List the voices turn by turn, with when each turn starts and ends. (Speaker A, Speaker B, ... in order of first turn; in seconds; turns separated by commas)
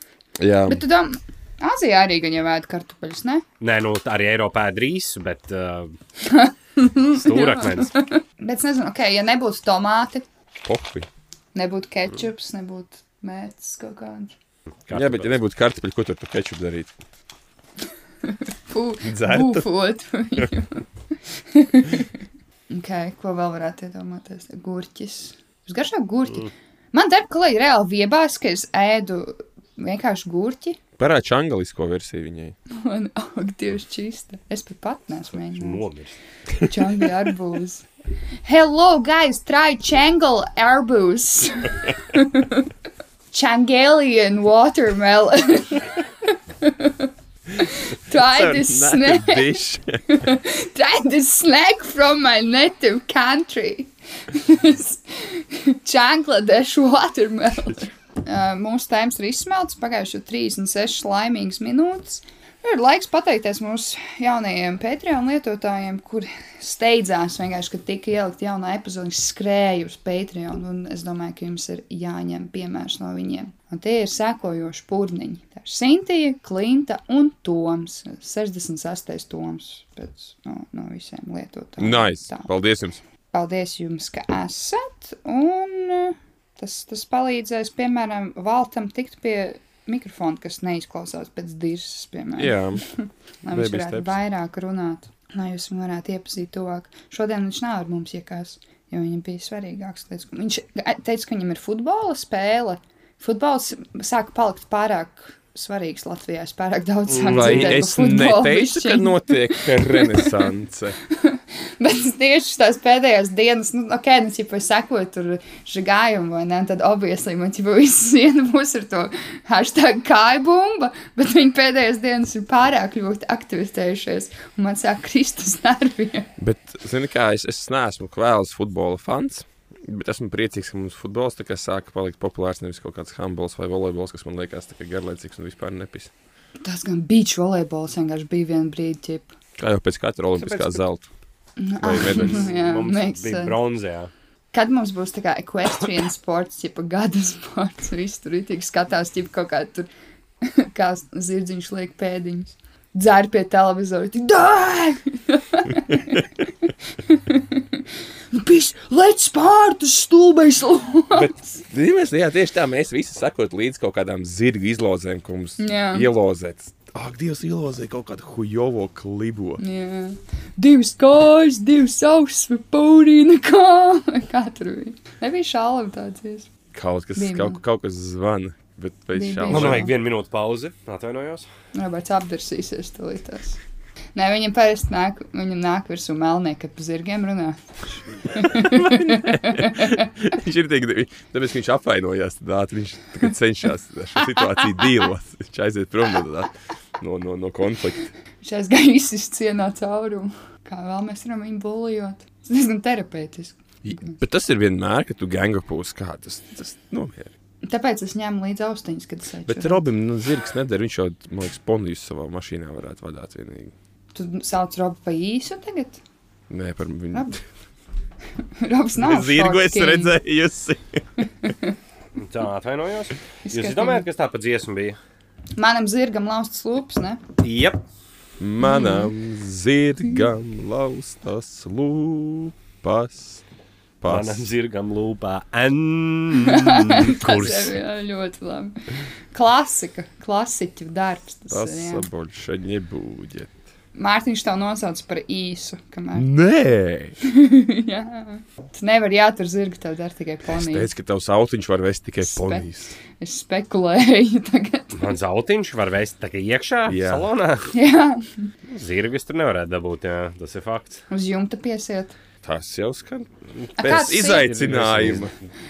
Speaker A: 0.4-0.8, Speaker B: 0.7-3.4, Speaker C: 3.6-6.0, Speaker B: 6.2-10.2, Speaker C: 7.1-7.9, Speaker A: 10.6-11.1, Speaker B: 11.5-14.3, Speaker C: 14.9-15.4, Speaker A: 14.9-16.9, Speaker B: 18.2-20.9, Speaker A: 19.0-19.7, Speaker B: 21.5-22.2, Speaker B: 22.7-30.8, Speaker A: 31.0-32.6, Speaker B: 32.7-35.8, Speaker C: 35.5-36.1, Speaker B: 36.6-37.9, Speaker B: 38.4-42.7, Speaker B: 43.3-82.5, Speaker A: 48.1-50.3, Speaker A: 81.8-83.0, Speaker B: 83.3-110.3, Speaker A: 92.4-92.8, Speaker A: 93.5-94.2, Speaker C: 107.1-107.9, Speaker A: 107.3-111.0, Speaker B: 111.1-126.3, Speaker A: 126.4-136.1, Speaker B: 136.7-139.3, Speaker A: 139.6-141.1, Speaker C: 140.4-140.8, Speaker B: 141.6-143.6, Speaker A: 141.8-142.5, Speaker C: 141.9-144.1, Speaker B: 144.5-149.9, Speaker B: 150.4-156.3, Speaker B: 157.0-161.6, Speaker A: 161.1-169.6, Speaker B: 165.6-166.1, Speaker B: 169.6-176.5, Speaker A: 176.7-179.9, Speaker B: 177.2-177.6, Speaker B: 179.1-179.9, Speaker C: 179.5-181.5, Speaker B: 181.7-183.6, Speaker B: 184.2-187.6, Speaker B: 188.3-190.1, Speaker A: 188.5-198.1, Speaker B: 194.4-194.7, Speaker B: 198.4-204.2, Speaker A: 203.8-207.3, Speaker B: 207.6-209.8, Speaker A: 209.5-213.7, Speaker B: 214.1-216.0, Speaker A: 216.5-217.3, Speaker B: 217.1-217.4, Speaker B: 218.6-220.2, Speaker A: 219.0-221.1, Speaker B: 221.2-221.8, Speaker C: 222.2-225.0, Speaker B: 223.4-224.1, Speaker B: 225.6-227.2, Speaker C: 227.4-227.8, Speaker A: 228.4-233.4, Speaker B: 228.6-229.1, Speaker A: 234.0-234.5, Speaker C: 234.1-237.8, Speaker B: 236.4-242.1, Speaker A: 241.5-243.6, Speaker B: 243.9-246.3, Speaker A: 246.1-247.2, Speaker B: 247.2-250.9, Speaker A: 250.5-252.9, Speaker B: 252.2-255.1, Speaker C: 254.9-257.7, Speaker A: 256.9-257.3, Speaker B: 257.7-258.5, Speaker C: 258.7-261.0, Speaker B: 261.1-262.1, Speaker A: 262.4-265.3, Speaker B: 263.8-264.5, Speaker C: 264.3-265.3